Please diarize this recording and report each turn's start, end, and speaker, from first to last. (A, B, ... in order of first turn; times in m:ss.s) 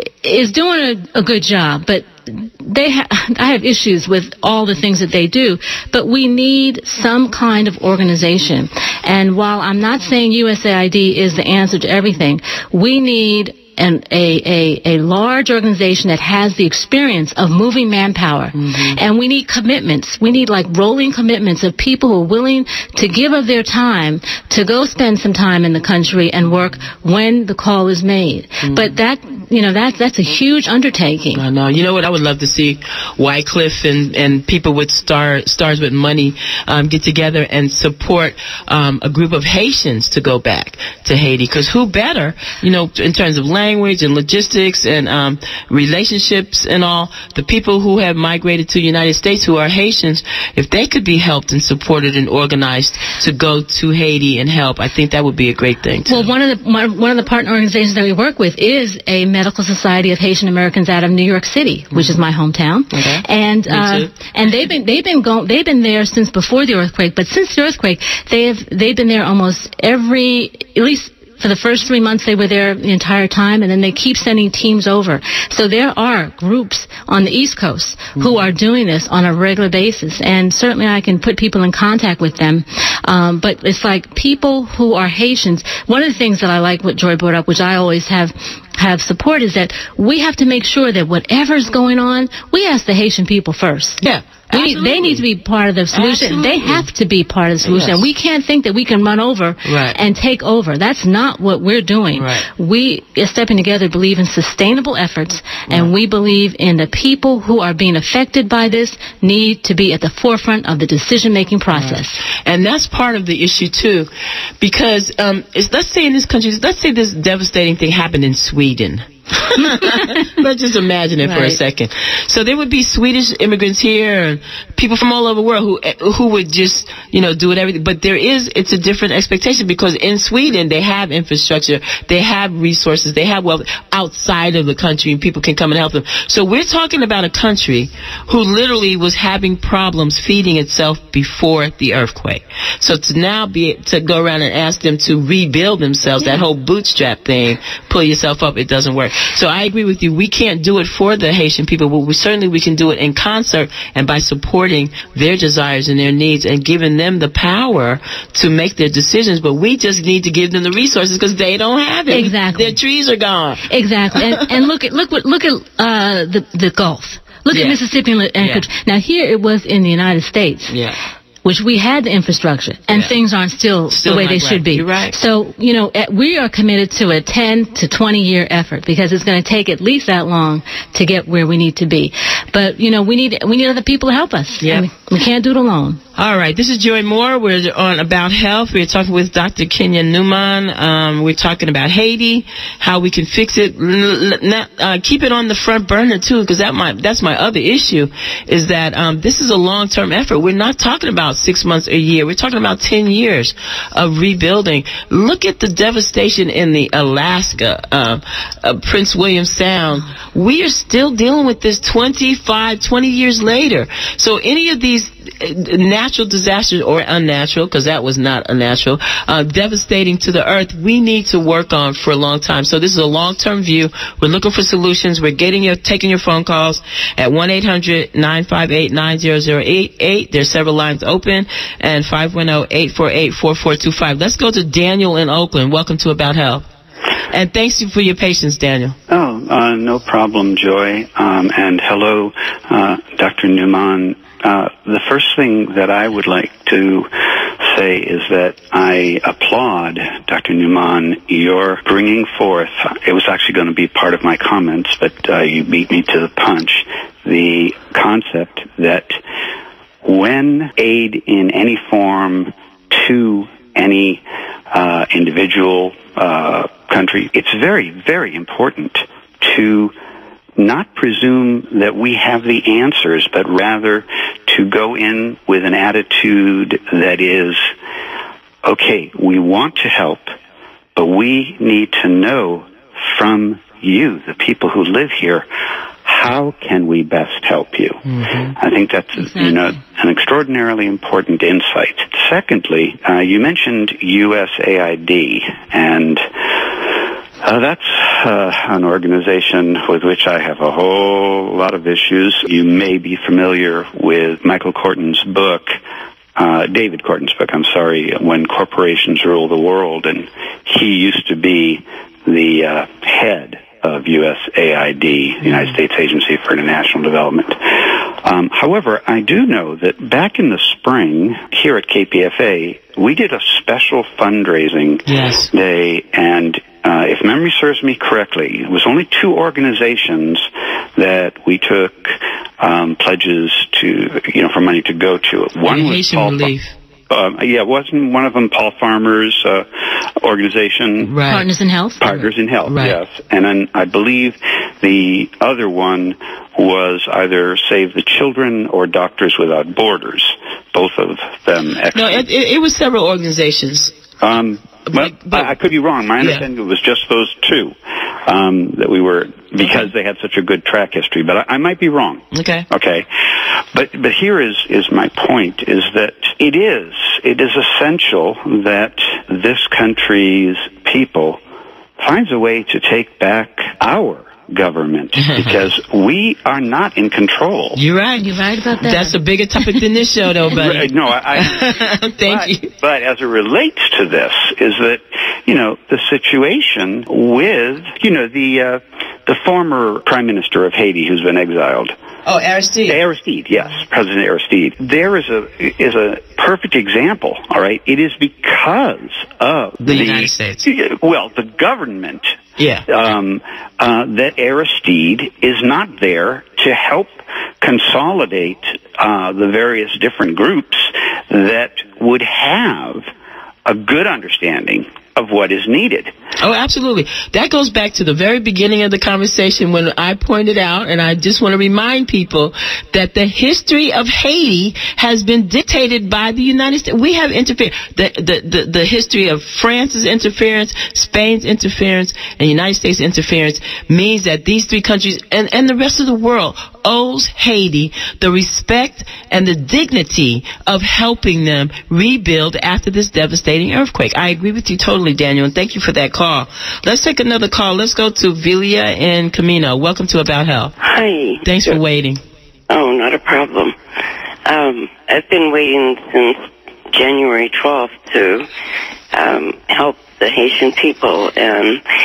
0:00.2-0:31.4 A
0:18.6-0:19.0 B
0:28.6-0:28.9 B
0:31.4-0:56.3 B
0:56.1-1:52.2 A
1:02.9-1:04.1 B
1:34.0-1:35.2 B
1:35.9-1:36.9 B
1:37.6-1:38.0 B
1:39.6-1:40.0 B
1:42.2-1:42.5 B
1:51.8-1:54.1 B
1:54.6-2:44.4 B
2:42.1-2:42.8 A
2:43.6-2:50.7 A
2:47.5-2:47.8 B
2:48.4-2:48.7 B
2:50.7-2:51.0 B
2:51.4-3:06.0 A
2:53.9-2:55.2 B
3:04.6-3:04.9 B
3:06.2-3:56.7 B
3:57.3-3:59.0 B
3:59.1-4:19.2 C
4:20.0-4:29.9 C
4:30.6-4:37.7 C
4:38.6-4:40.3 C
4:41.0-4:45.5 C
4:46.0-4:48.0 C
4:48.1-4:48.6 B
4:48.6-4:56.2 C
4:56.8-5:05.8 C
5:06.4-5:30.5 C
5:25.1-5:25.5 B
5:31.0-5:36.5 C
5:35.7-5:36.7 B
5:37.1-5:41.2 C
5:41.0-5:41.5 B
5:41.3-5:42.0 A
5:42.0-5:52.3 C
5:42.1-5:43.0 B
5:51.9-5:53.9 B
5:54.2-6:03.1 C
5:54.9-5:55.5 B
5:56.2-5:56.4 B
6:02.3-6:02.7 B
6:03.7-6:11.4 C
6:12.0-6:17.8 C
6:17.8-6:22.7 B
6:18.2-6:19.2 A
6:20.4-6:32.0 C
6:32.2-6:33.0 B
6:32.9-6:53.1 C
6:39.8-6:40.7 B
6:42.6-6:42.9 B
6:53.7-6:56.1 C
6:56.4-7:30.8 B
7:30.8-7:31.4 D
7:31.4-7:32.2 B
7:32.7-7:33.8 D
7:34.4-7:38.5 D
7:39.1-7:41.8 D